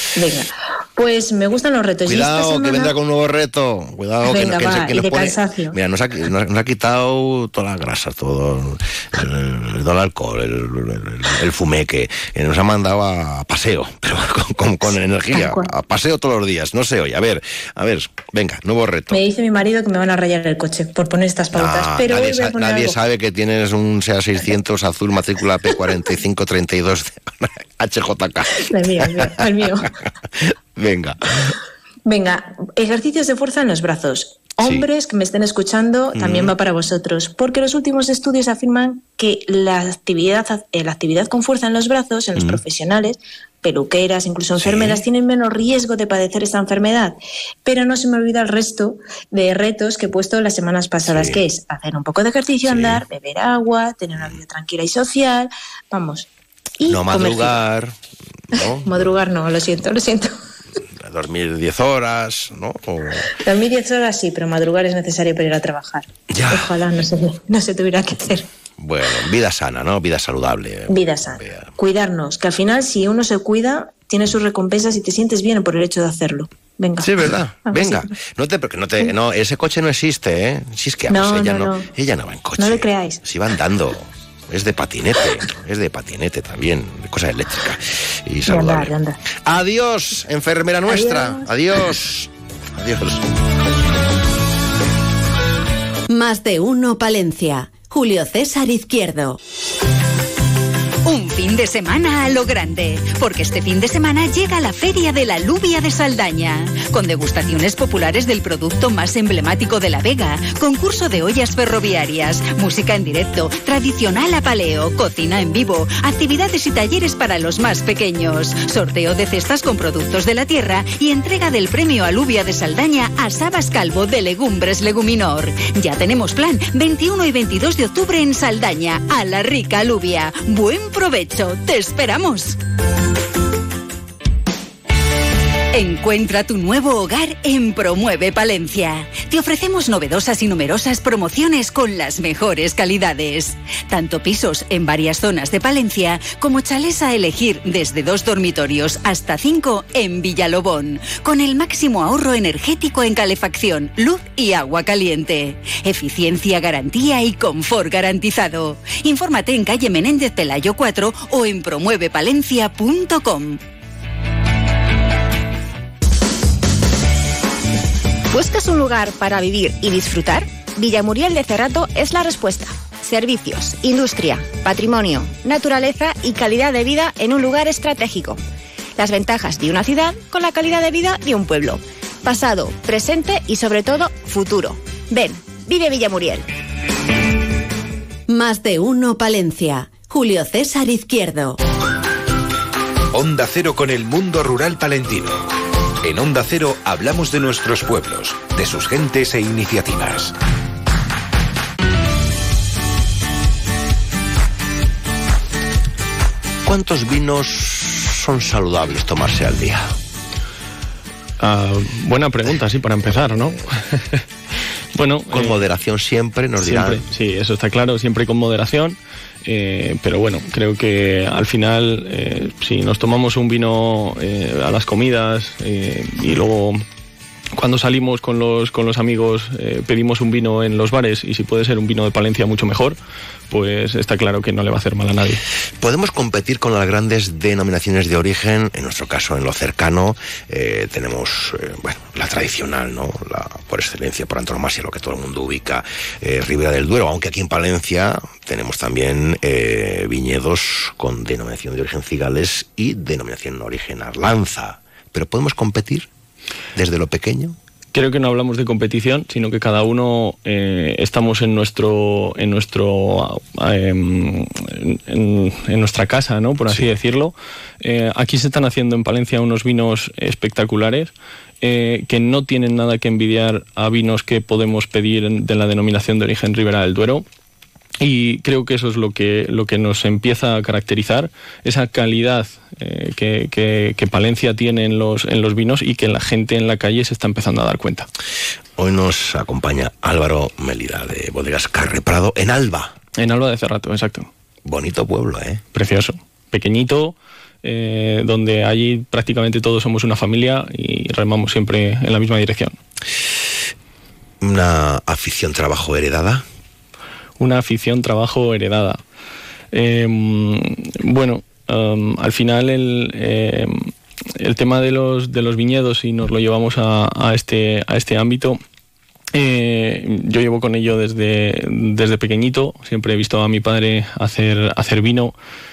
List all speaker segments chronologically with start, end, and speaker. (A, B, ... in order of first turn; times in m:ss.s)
0:00.2-0:03.0 A
0:02.1-0:19.2 B
0:04.2-0:05.8 A
0:15.3-0:15.7 A
0:19.1-0:23.0 A
0:21.5-0:29.2 B
0:28.7-0:29.9 A
0:30.8-0:31.2 B
0:32.1-0:56.3 A
0:34.6-0:34.9 B
0:36.2-0:36.5 B
0:44.6-0:45.0 B
0:51.1-0:51.4 B
0:52.6-0:53.0 B
0:56.8-0:57.6 A
0:56.9-0:58.0 B
0:58.5-0:59.2 B
0:58.6-1:00.3 A
1:01.0-1:03.2 B
1:03.4-1:08.5 A
1:06.3-1:06.9 B
1:08.8-1:11.7 B
1:10.9-1:18.2 A
1:17.0-1:29.0 B
1:21.1-1:21.9 A
1:22.6-1:23.2 A
1:28.5-1:29.2 A
1:29.5-1:33.2 B
1:30.8-1:31.5 A
1:36.1-1:39.4 C
1:41.0-2:12.6 D
2:15.7-2:43.6 D
2:48.3-2:58.4 E
2:59.0-3:06.5 E
3:08.3-3:11.6 C
3:13.1-3:15.4 F
3:16.0-3:20.3 F
3:26.7-3:30.0 B
3:31.4-3:34.2 G
3:33.1-3:33.4 B
3:35.0-3:35.6 G
3:35.3-3:37.0 B
3:36.6-3:46.8 G
3:47.6-3:53.0 G
3:53.5-3:55.4 G
3:55.8-4:16.1 B
4:16.8-4:17.6 B
4:17.9-4:37.2 G
4:38.0-4:48.1 G
4:48.8-4:52.9 B
4:53.2-4:54.3 G
4:54.7-4:55.6 B
4:55.7-5:02.8 G
5:04.4-5:06.4 B
5:07.4-5:09.0 G
5:09.7-5:18.6 G
5:19.3-5:25.3 G